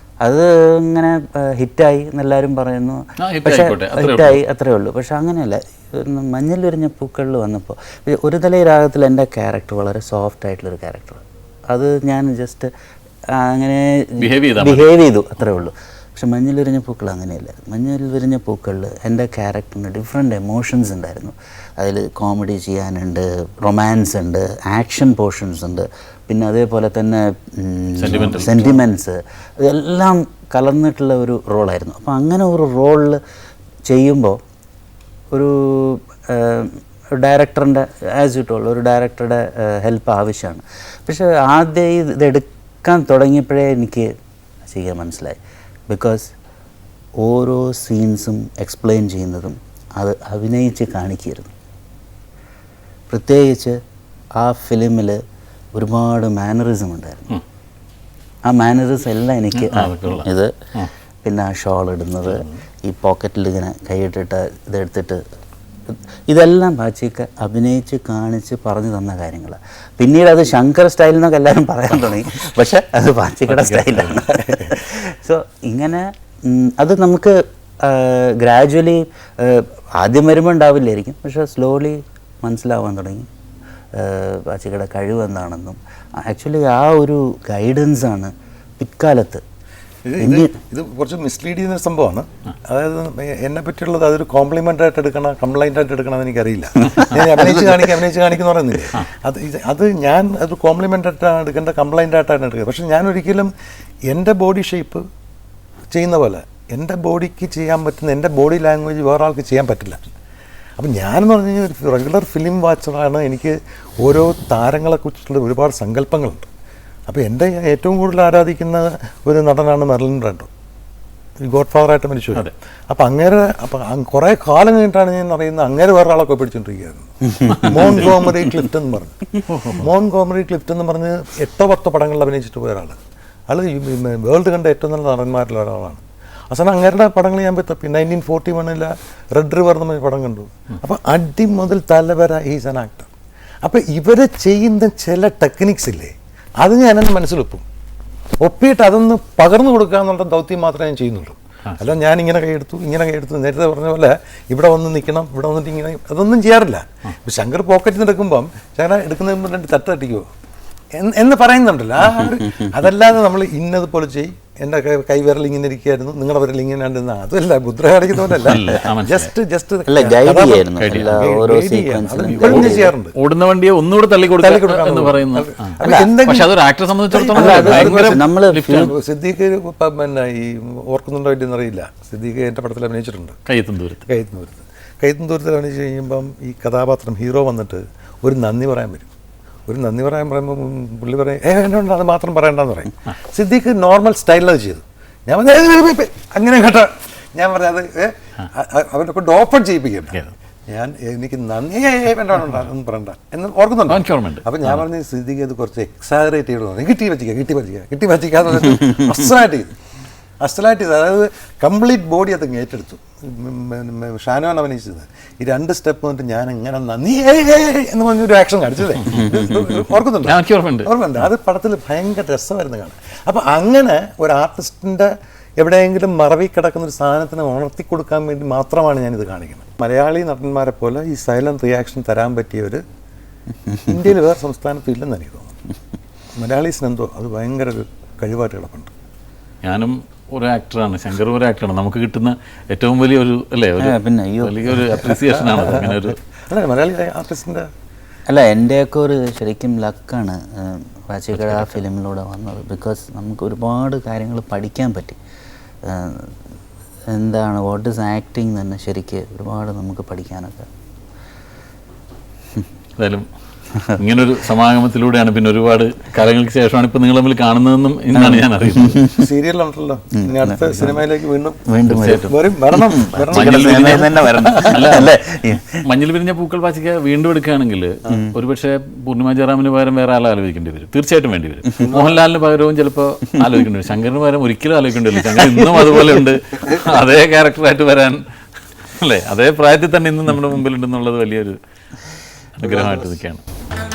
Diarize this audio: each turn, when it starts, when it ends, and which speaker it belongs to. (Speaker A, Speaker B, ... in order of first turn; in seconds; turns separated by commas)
Speaker A: 0.2-12.7, Speaker B: 3.2-4.4, Speaker A: 13.3-33.2, Speaker B: 14.2-14.9, Speaker B: 28.0-28.8, Speaker A: 33.9-34.4, Speaker A: 35.3-44.1, Speaker A: 44.6-46.3, Speaker A: 47.2-51.5, Speaker A: 53.1-53.8, Speaker A: 54.4-55.2, Speaker A: 55.8-57.4, Speaker A: 58.5-60.5, Speaker B: 59.5-60.9, Speaker A: 61.2-65.2, Speaker A: 65.9-83.3, Speaker B: 73.5-74.3, Speaker C: 74.4-74.7, Speaker A: 84.0-89.4, Speaker C: 90.1-103.5, Speaker A: 90.2-90.5, Speaker A: 96.9-97.7, Speaker C: 104.1-105.0, Speaker C: 105.9-110.0, Speaker C: 110.8-116.5, Speaker C: 117.1-120.5, Speaker C: 121.4-129.3, Speaker A: 127.3-128.3, Speaker B: 127.5-128.2, Speaker B: 129.5-129.9, Speaker C: 129.8-133.0, Speaker C: 133.5-143.1, Speaker C: 143.6-147.7, Speaker C: 148.4-160.3, Speaker C: 160.9-173.2, Speaker B: 168.4-169.3, Speaker A: 169.9-172.9, Speaker B: 170.8-171.2, Speaker B: 172.3-178.9, Speaker C: 174.4-176.5, Speaker C: 177.1-183.4, Speaker A: 177.3-178.9, Speaker B: 183.5-184.1, Speaker C: 184.1-189.1, Speaker C: 189.7-209.7, Speaker B: 203.9-204.8, Speaker C: 210.4-232.8, Speaker B: 219.1-219.5, Speaker B: 220.2-221.3, Speaker C: 233.8-235.6, Speaker C: 236.4-238.9, Speaker B: 239.6-246.2, Speaker A: 243.8-244.8, Speaker C: 245.0-247.7, Speaker A: 248.3-255.2, Speaker B: 251.3-251.8, Speaker A: 255.8-256.3, Speaker A: 257.1-260.7, Speaker B: 263.0-263.3, Speaker B: 263.9-269.0, Speaker A: 268.1-269.3, Speaker C: 269.1-274.1, Speaker A: 270.2-271.0, Speaker A: 271.7-275.8, Speaker B: 271.9-272.3, Speaker B: 273.3-275.1, Speaker B: 275.8-288.2, Speaker A: 278.1-278.4, Speaker C: 281.9-282.1, Speaker A: 285.3-286.2, Speaker B: 288.9-291.6, Speaker B: 292.6-293.4